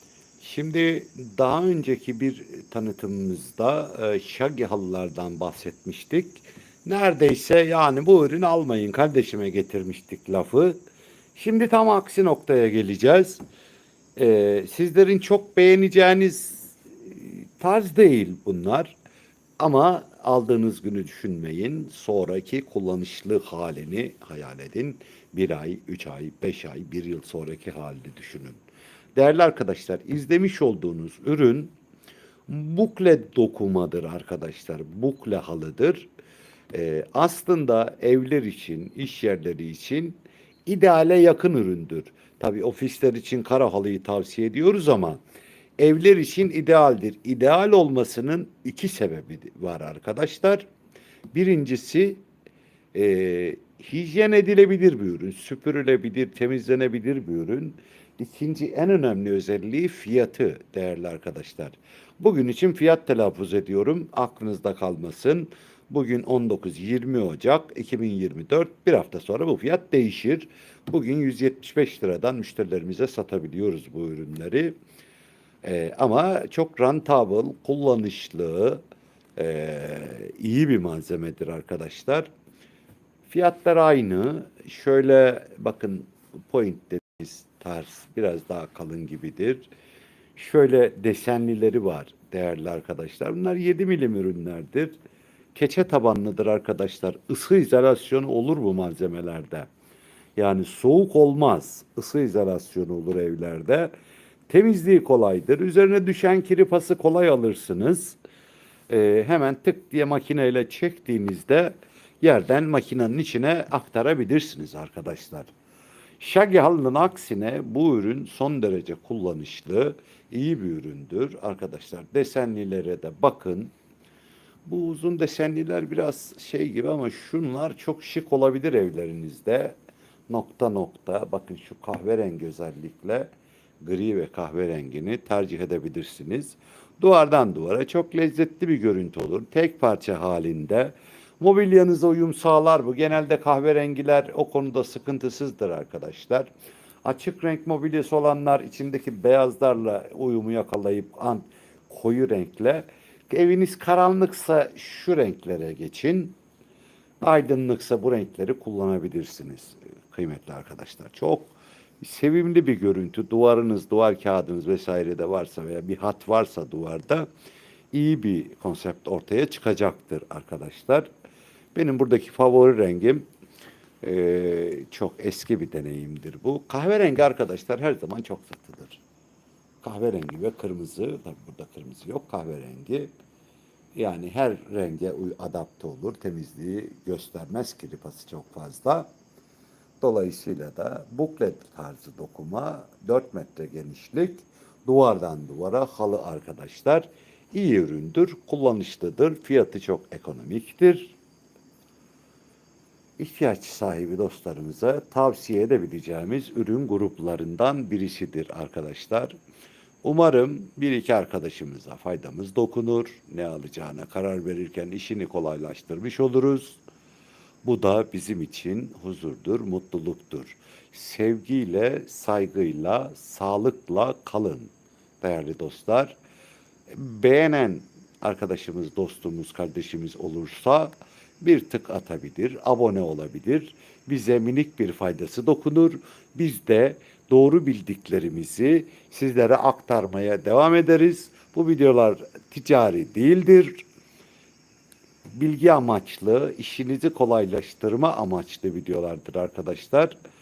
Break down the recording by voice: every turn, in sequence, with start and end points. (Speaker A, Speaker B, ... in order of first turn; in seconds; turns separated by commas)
Speaker A: 0.4-10.8, Speaker A: 11.3-13.4, Speaker A: 14.2-18.9, Speaker A: 19.6-28.6, Speaker A: 29.1-31.7, Speaker A: 32.5-36.1, Speaker A: 36.7-45.2, Speaker A: 45.8-50.7, Speaker A: 51.3-52.2, Speaker A: 52.9-74.7, Speaker A: 75.6-78.8, Speaker A: 79.4-82.3, Speaker A: 83.3-89.7, Speaker A: 90.4-95.0, Speaker A: 95.5-99.7, Speaker A: 100.4-103.9, Speaker A: 104.5-108.2, Speaker A: 108.9-115.5, Speaker A: 116.2-123.7, Speaker A: 124.7-129.8, Speaker A: 130.3-146.5, Speaker A: 147.0-156.4, Speaker A: 157.2-167.3, Speaker A: 167.9-171.1, Speaker A: 171.7-173.3, Speaker A: 174.0-179.0, Speaker A: 179.8-183.1, Speaker A: 184.0-189.1, Speaker A: 190.0-201.2, Speaker A: 203.2-209.3, Speaker A: 210.0-216.8, Speaker A: 217.6-226.2, Speaker A: 226.9-243.8, Speaker A: 245.4-250.1